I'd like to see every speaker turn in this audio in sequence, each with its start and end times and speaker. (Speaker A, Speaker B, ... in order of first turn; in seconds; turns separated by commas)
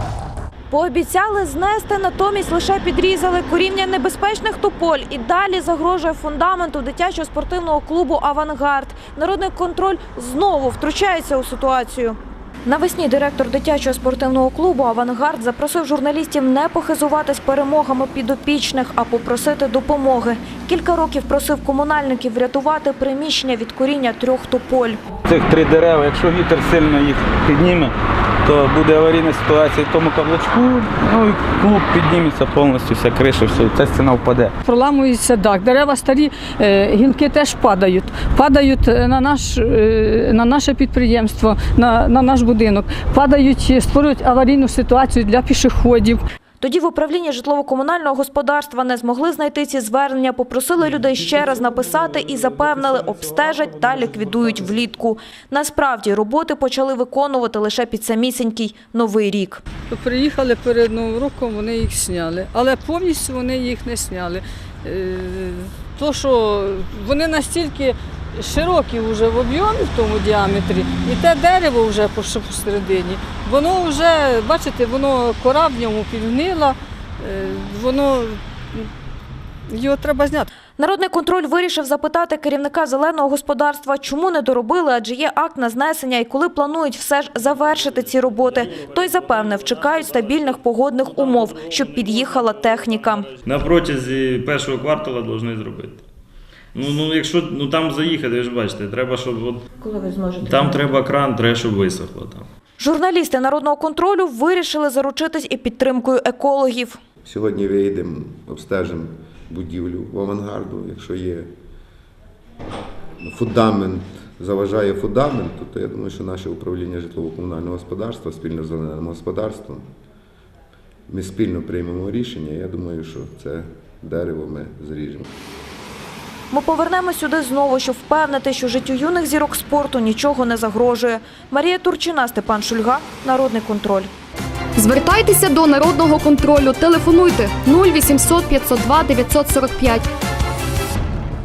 Speaker A: 0.7-25.0, Speaker B: 25.3-34.5, Speaker C: 34.6-46.2, Speaker A: 46.6-59.6, Speaker C: 59.9-78.9, Speaker C: 79.7-80.5, Speaker A: 80.8-93.3, Speaker D: 93.4-96.0, Speaker D: 96.7-99.6, Speaker A: 99.8-100.9, Speaker D: 100.4-102.5, Speaker A: 102.8-107.0, Speaker E: 107.2-111.5, Speaker E: 113.2-119.8, Speaker E: 121.1-125.3, Speaker A: 126.5-134.1, Speaker F: 134.8-140.1